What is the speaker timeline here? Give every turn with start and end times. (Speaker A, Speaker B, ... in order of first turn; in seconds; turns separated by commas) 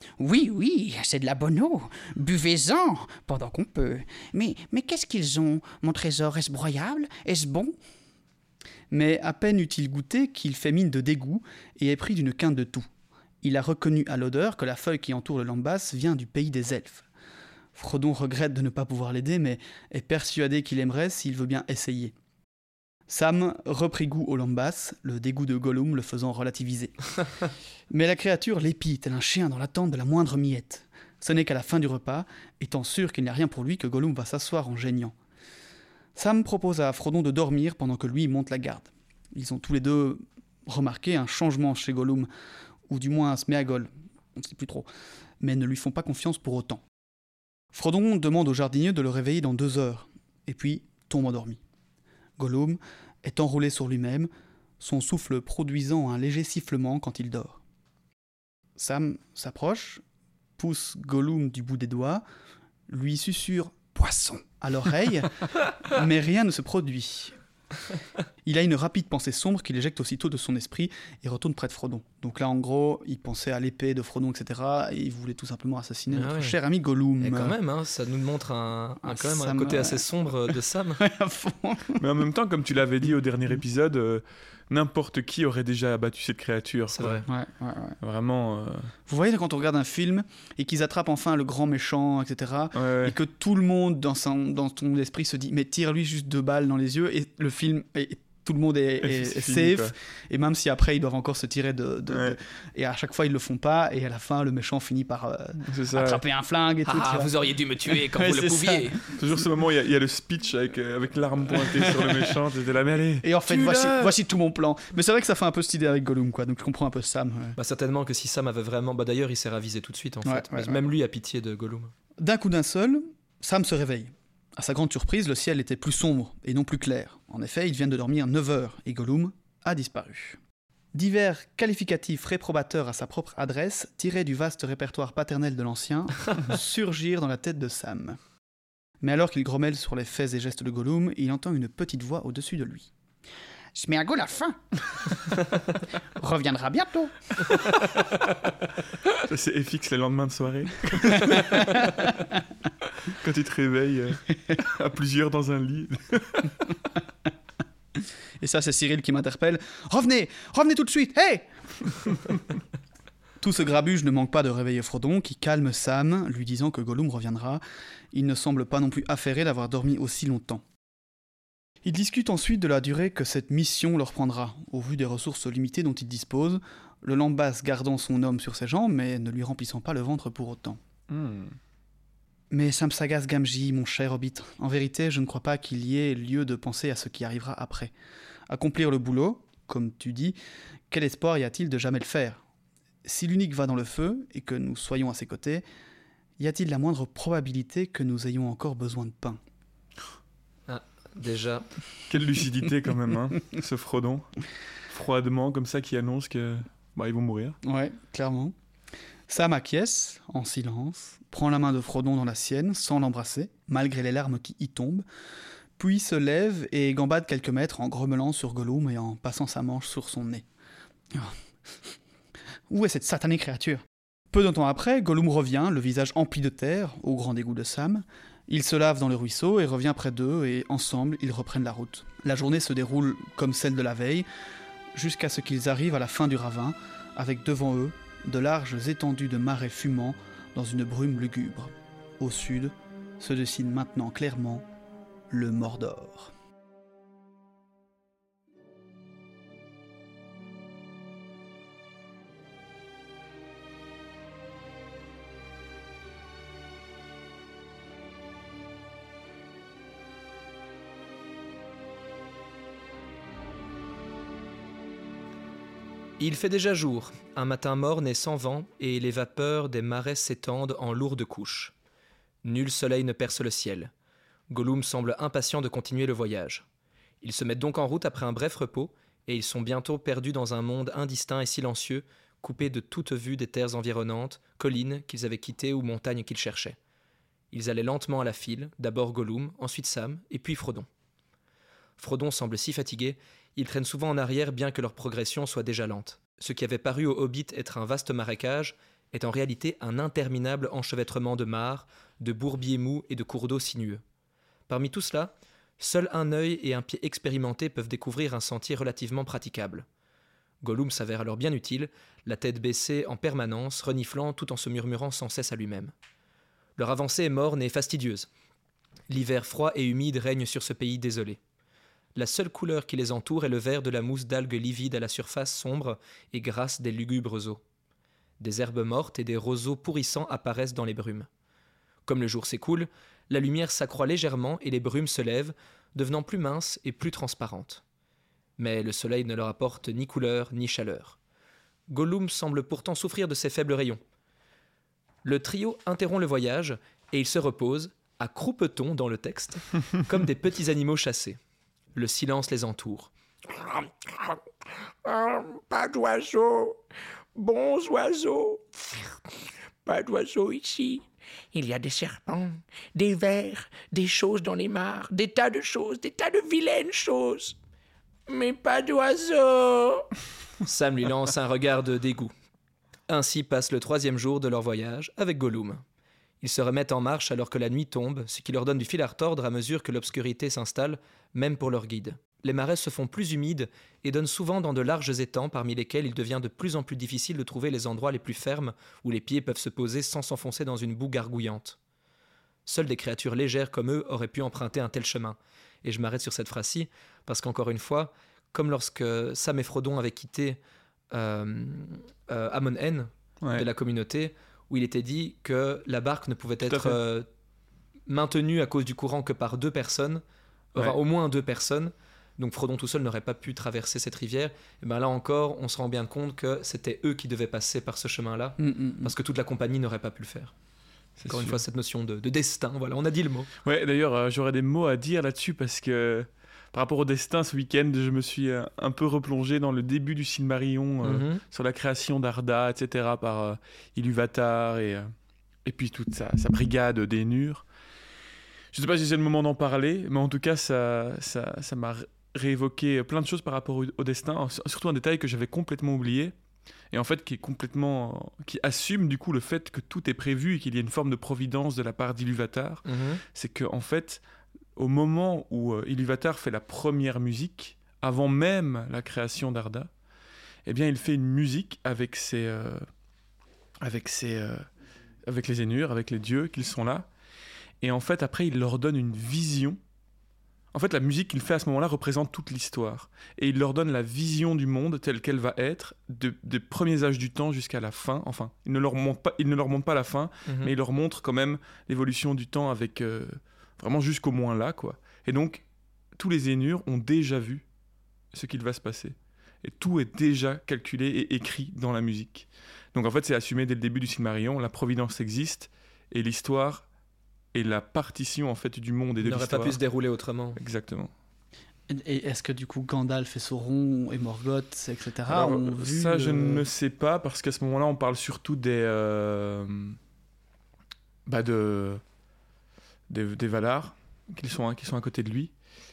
Speaker A: 0.2-7.7, Speaker B: 8.9-12.9, Speaker B: 13.4-17.1, Speaker B: 17.7-22.1, Speaker B: 23.1-27.1, Speaker B: 27.9-35.1, Speaker B: 36.1-42.3, Speaker B: 42.9-44.9, Speaker B: 45.4-46.8, Speaker B: 47.7-51.6, Speaker B: 52.4-54.3, Speaker B: 54.8-57.6, Speaker B: 58.8-60.0, Speaker B: 60.6-62.2, Speaker B: 62.9-67.4, Speaker B: 68.4-77.5, Speaker C: 76.1-76.6, Speaker C: 77.2-81.0, Speaker B: 79.0-80.0, Speaker B: 81.0-82.1, Speaker D: 82.0-87.2, Speaker C: 86.9-87.2, Speaker B: 87.2-88.0, Speaker D: 88.0-88.9, Speaker B: 89.1-109.3, Speaker D: 92.8-93.2, Speaker D: 99.0-99.9, Speaker D: 102.1-102.3, Speaker D: 105.6-106.2, Speaker C: 106.8-109.0, Speaker D: 109.1-114.1, Speaker B: 111.5-112.3, Speaker B: 113.2-117.5, Speaker C: 117.6-121.9, Speaker B: 120.2-120.8, Speaker B: 122.2-130.4, Speaker B: 130.9-138.2, Speaker B: 139.0-142.9, Speaker A: 143.8-144.5, Speaker B: 146.2-147.0, Speaker A: 146.4-147.1, Speaker D: 149.2-152.1, Speaker B: 151.1-152.0, Speaker D: 153.1-156.8, Speaker B: 158.4-162.3, Speaker B: 163.4-167.6, Speaker B: 168.1-170.6, Speaker B: 171.8-180.8, Speaker D: 181.1-181.6, Speaker B: 182.5-187.9, Speaker B: 188.5-190.4, Speaker B: 190.9-192.4, Speaker B: 193.0-195.6, Speaker B: 196.4-199.4, Speaker C: 200.7-201.7, Speaker D: 202.1-204.3, Speaker D: 204.9-207.6, Speaker B: 207.6-208.5, Speaker B: 209.3-215.1, Speaker B: 215.8-220.4, Speaker B: 221.1-221.9, Speaker B: 222.7-234.2, Speaker B: 234.9-244.7, Speaker B: 245.3-246.3, Speaker C: 266.2-271.7, Speaker C: 272.4-273.9, Speaker C: 274.5-276.6, Speaker C: 277.2-286.8, Speaker C: 287.5-290.9, Speaker C: 292.0-304.0, Speaker C: 304.7-309.9, Speaker C: 310.6-315.9, Speaker C: 316.8-318.3, Speaker C: 319.1-321.4, Speaker C: 322.1-327.6, Speaker C: 328.4-331.3, Speaker C: 332.1-337.8, Speaker C: 338.6-341.2, Speaker C: 341.9-344.0, Speaker C: 345.2-351.4, Speaker C: 351.9-353.1, Speaker E: 353.5-354.4, Speaker E: 355.0-356.8, Speaker E: 357.3-367.6, Speaker E: 368.3-370.1, Speaker C: 370.6-372.3, Speaker C: 373.1-375.8, Speaker C: 376.4-391.8, Speaker C: 392.6-400.6, Speaker C: 401.1-407.3, Speaker D: 403.4-403.7, Speaker D: 406.7-407.0, Speaker C: 408.1-410.2, Speaker C: 410.7-420.5, Speaker B: 418.6-419.1, Speaker D: 421.2-421.6, Speaker C: 421.3-423.5, Speaker D: 423.6-435.1, Speaker C: 431.0-431.4, Speaker D: 435.6-437.6, Speaker D: 438.7-446.3, Speaker D: 446.9-454.2, Speaker C: 452.8-453.2, Speaker D: 454.8-459.9, Speaker D: 460.6-462.9, Speaker D: 463.8-464.6, Speaker D: 465.2-467.1, Speaker D: 467.8-469.8, Speaker D: 470.7-485.6, Speaker C: 480.4-480.7, Speaker D: 486.1-487.6, Speaker D: 488.3-496.9, Speaker D: 497.5-499.8, Speaker C: 499.2-500.6, Speaker D: 500.6-501.1, Speaker B: 501.9-506.6, Speaker D: 505.3-510.0, Speaker D: 511.2-512.0, Speaker D: 513.1-515.5